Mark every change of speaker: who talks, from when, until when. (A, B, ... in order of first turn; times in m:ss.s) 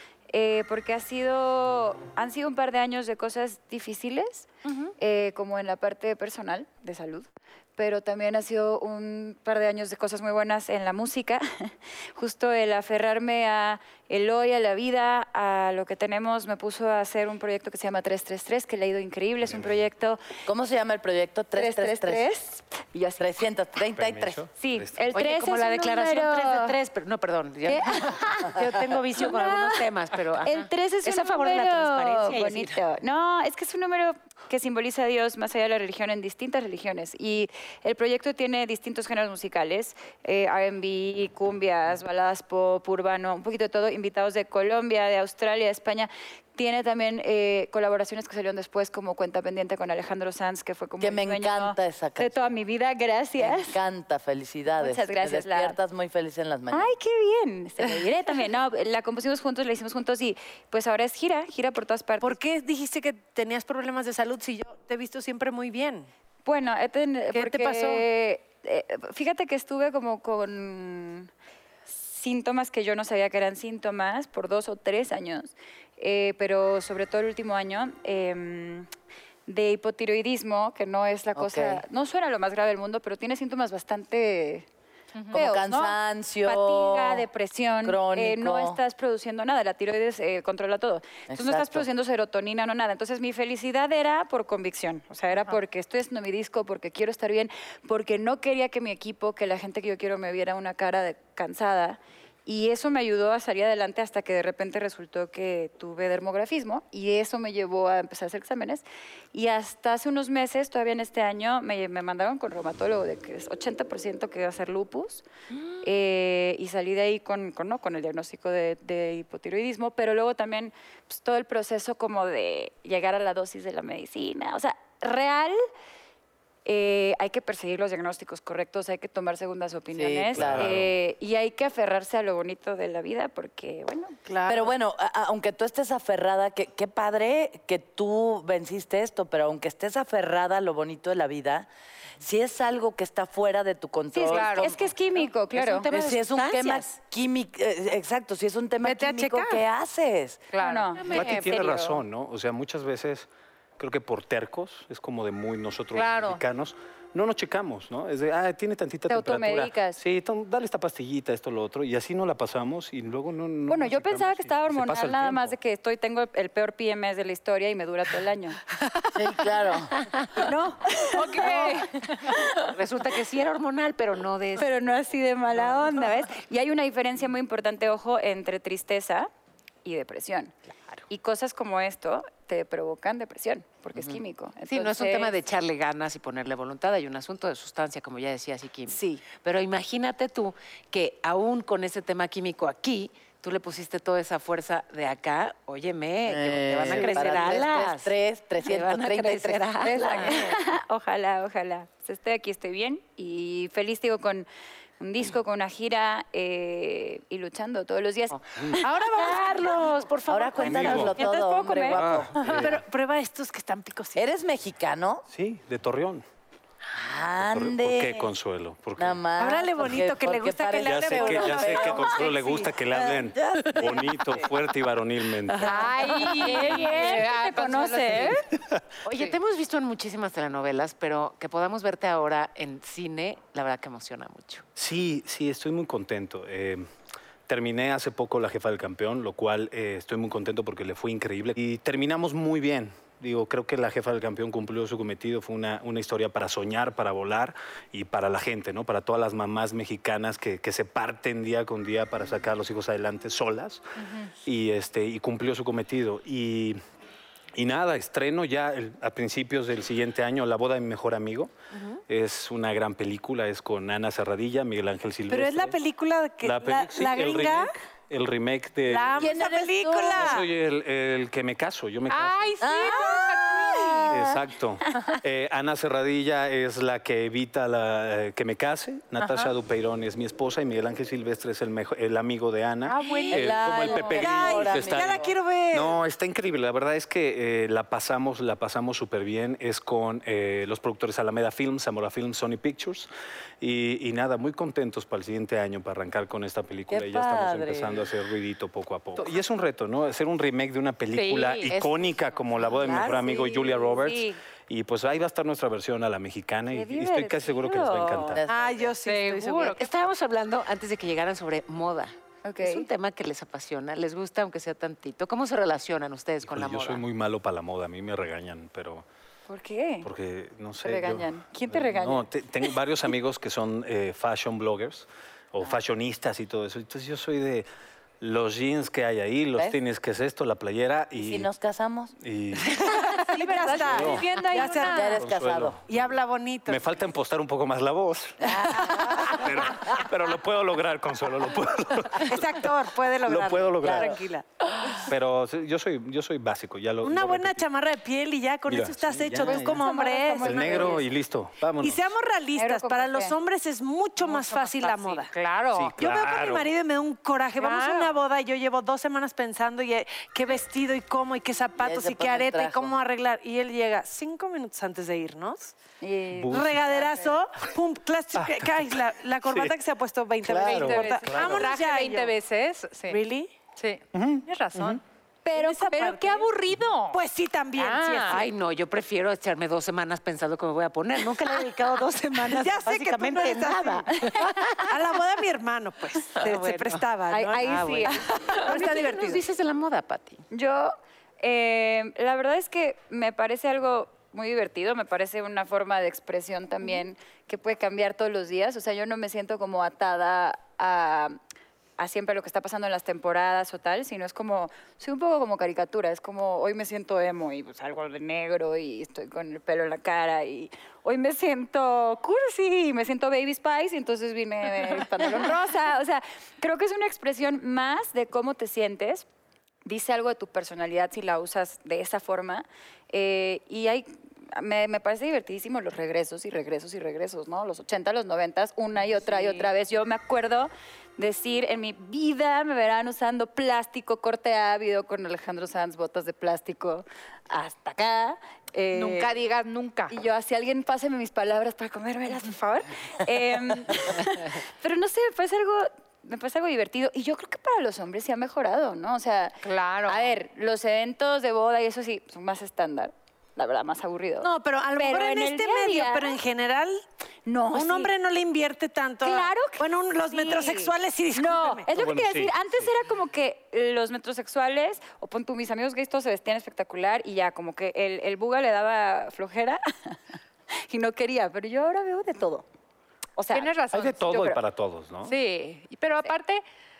0:00.3-0:20.2 A
0:04.6-0:04.9 B
0:20.5-0:22.3 C
0:21.5-0:23.3 A
0:23.2-0:24.4 C
0:24.0-0:25.1 D
0:24.6-0:26.8 A
0:25.2-0:32.8 B
0:27.7-0:28.6 A
0:29.2-0:29.9 A
0:30.4-0:53.8 A
0:51.0-0:52.5 C
0:53.4-0:56.9 C
0:54.7-0:55.8 A
0:56.7-1:02.4 A
1:02.2-1:06.1 E
1:06.4-1:11.3 A
1:07.3-1:08.0 E
1:11.9-1:18.9 A
1:19.5-1:24.7 A
1:21.4-1:21.8 C
1:25.2-1:25.4 F
1:25.3-1:55.2 A
1:25.3-1:27.3 C
1:27.8-1:28.8 C
1:31.3-1:31.9 C
1:55.8-2:05.6 A
2:06.6-2:14.2 A
2:10.0-2:10.7 C
2:10.3-2:10.9 D
2:14.3-2:14.7 E
2:14.5-2:21.7 C
2:22.2-2:24.8 C
2:24.1-2:25.9 A
2:24.3-2:24.8 F
2:25.5-2:26.9 B
2:25.9-2:30.4 C
2:28.8-2:29.6 E
2:30.5-2:31.1 F
2:30.6-2:32.0 A
2:31.0-2:31.5 B
2:31.1-2:45.6 D
2:36.0-2:36.4 F
2:39.1-2:40.0 A
2:43.7-2:48.6 A
2:49.1-2:50.1 C
2:50.0-2:50.3 B
2:50.4-2:52.7 A
2:51.2-2:51.8 F
2:51.4-2:51.8 E
2:52.6-2:54.8 B
2:54.6-2:59.3 A
2:59.8-3:00.6 A
3:01.1-3:05.4 A
3:04.0-3:20.6 B
3:08.9-3:09.2 E
3:16.2-3:20.4 C
3:17.0-3:17.4 E
3:19.8-3:24.5 A
3:25.0-3:28.4 A
3:28.8-3:30.0 E
3:29.1-3:31.1 B
3:30.3-3:32.7 C
3:30.6-3:31.3 E
3:30.6-3:31.2 D
3:31.2-3:32.0 A
3:31.9-3:32.8 D
3:32.4-3:34.2 E
3:34.2-3:35.2 C
3:35.3-3:36.2 D
3:36.9-3:38.3 C
3:37.4-3:39.2 D
3:39.0-3:42.3 C
3:39.4-3:42.7 E
3:40.8-3:45.9 D
3:42.9-3:44.4 C
3:45.6-3:47.0 B
3:45.6-3:48.4 F
3:45.9-3:48.5 A
3:49.0-3:54.6 B
3:54.8-3:56.8 D
3:57.5-4:13.8 D
4:14.0-4:14.3 F
4:14.4-4:16.8 D
4:17.6-4:21.5 D
4:22.1-4:25.8 D
4:25.3-4:27.8 E
4:26.4-4:29.4 D
4:28.9-4:30.5 E
4:29.2-4:30.4 C
4:30.1-4:32.6 D
4:32.1-4:34.1 F
4:32.6-4:34.4 C
4:34.1-4:53.1 D
4:42.9-4:46.0 E
4:43.3-4:45.3 C
4:53.6-5:08.5 D
4:56.9-4:58.1 C
5:01.1-5:01.7 F
5:01.7-5:02.2 B
5:02.8-5:03.4 C
5:02.9-5:04.4 A
5:06.7-5:08.4 A
5:08.3-5:08.9 C
5:08.5-5:09.8 E
5:09.0-5:09.9 F
5:09.7-5:17.0 B
5:12.4-5:12.9 A
5:16.4-5:19.1 D
5:19.5-5:20.1 A
5:20.0-5:27.7 D
5:20.8-5:22.3 A
5:28.2-5:31.5 D
5:31.2-5:32.1 C
5:32.2-5:33.0 D
5:32.6-5:35.2 E
5:33.3-5:34.9 A
5:33.4-5:35.2 F
5:33.8-5:34.4 D
5:34.8-5:35.8 C
5:35.1-5:44.3 D
5:35.9-5:36.8 E
5:38.4-5:39.5 C
5:39.0-5:39.4 E
5:42.2-5:45.1 E
5:43.8-5:44.2 C
5:45.1-5:47.7 D
5:47.0-5:51.0 E
5:48.7-5:52.1 D
5:49.4-5:51.1 A
5:51.8-5:55.3 E
5:52.6-5:53.4 A
5:54.2-5:55.9 F
5:55.7-5:56.7 D
5:56.0-6:05.8 E
5:57.6-5:58.2 F
6:01.8-6:02.9 C
6:06.0-6:07.4 A
6:06.4-6:06.9 D
6:06.5-6:12.3 E
6:08.4-6:09.8 D
6:10.4-6:11.7 D
6:10.6-6:13.2 F
6:13.1-6:13.5 E
6:13.8-6:17.2 F
6:14.1-6:15.0 D
6:15.5-6:16.5 E
6:17.1-6:18.4 E
6:17.8-6:18.4 F
6:18.3-6:25.0 B
6:22.4-6:29.4 E
6:26.4-6:27.0 B
6:27.3-6:29.0 A
6:27.6-6:30.4 B
6:30.5-6:41.4 A
6:42.0-6:59.3 A
6:59.8-7:19.3 A
7:09.2-7:09.7 F
7:18.9-7:20.1 F
7:20.1-7:36.4 A
7:29.6-7:30.3 F
7:34.4-7:37.0 E
7:37.5-7:38.1 A
7:37.7-7:41.9 E
7:39.2-7:50.2 A
7:41.9-7:42.9 D
7:50.9-7:52.6 A
7:53.4-7:53.7 A
7:53.5-7:54.6 F
7:53.9-7:55.4 D
7:55.3-7:56.6 F